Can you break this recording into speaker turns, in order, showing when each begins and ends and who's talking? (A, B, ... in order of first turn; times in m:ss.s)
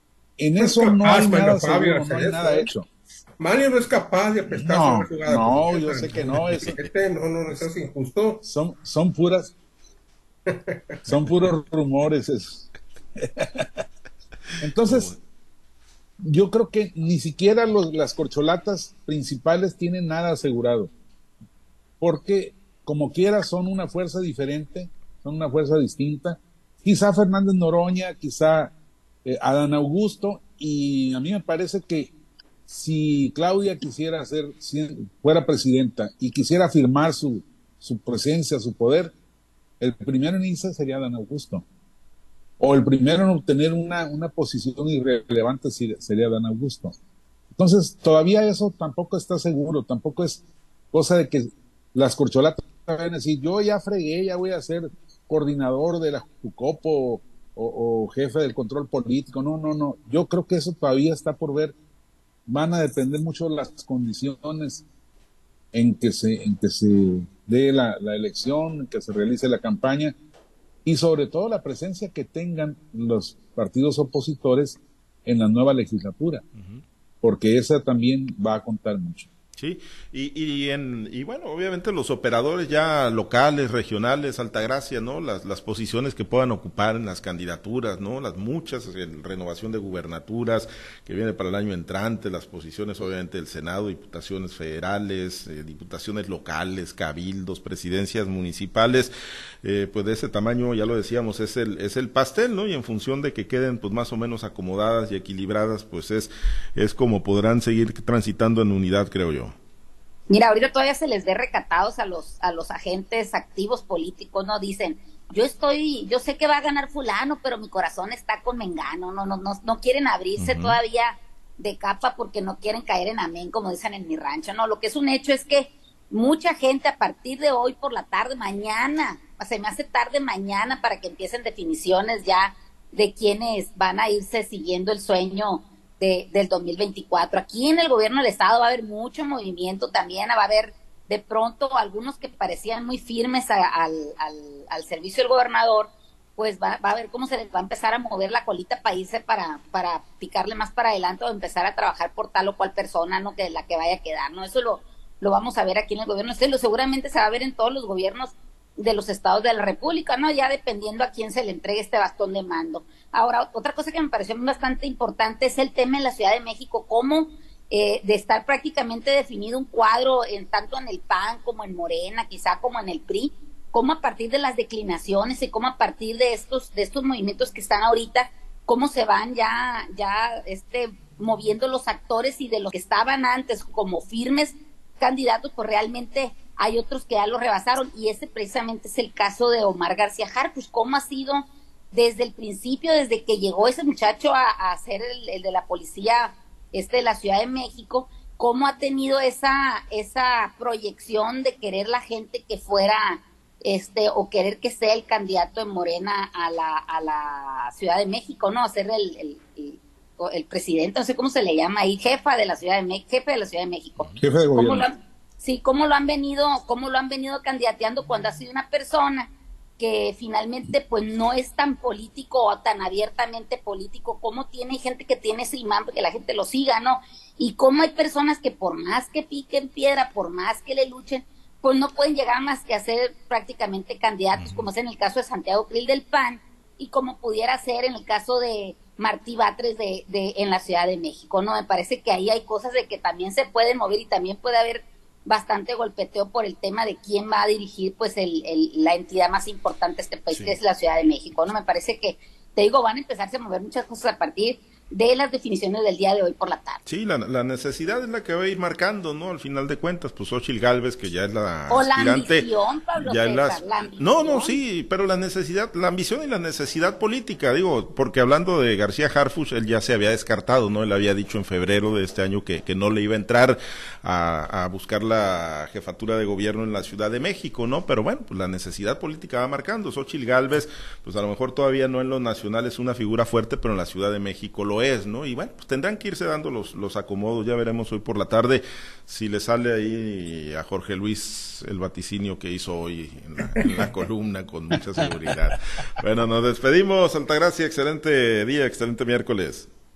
0:00.4-0:02.9 A
0:00.6-0:02.7 B
0:03.4-0:08.4 B
0:04.5-0:06.8 A
0:08.4-0:09.5 A
0:10.5-0:10.8 B
0:11.1-0:13.8 A
0:14.6-0:15.1 A
0:14.8-0:15.2 C
0:16.2-0:20.9 A
0:22.0-0:28.7 A
0:29.2-0:32.1 A
0:32.7-0:39.1 A
0:39.8-0:41.6 A
0:42.6-0:46.9 A
0:47.6-1:01.8 A
1:02.5-1:04.8 A
1:05.7-1:10.1 A
1:10.8-1:16.4 A
1:16.6-1:16.8 C
1:17.2-1:19.3 A
1:19.6-1:39.1 C
1:39.6-1:49.6 C
1:50.3-4:16.8 D
2:00.4-2:00.8 C
3:34.2-3:34.9 A
3:54.4-3:54.7 C
4:10.3-4:10.6 C
4:16.9-4:59.7 C
4:21.7-4:24.6 D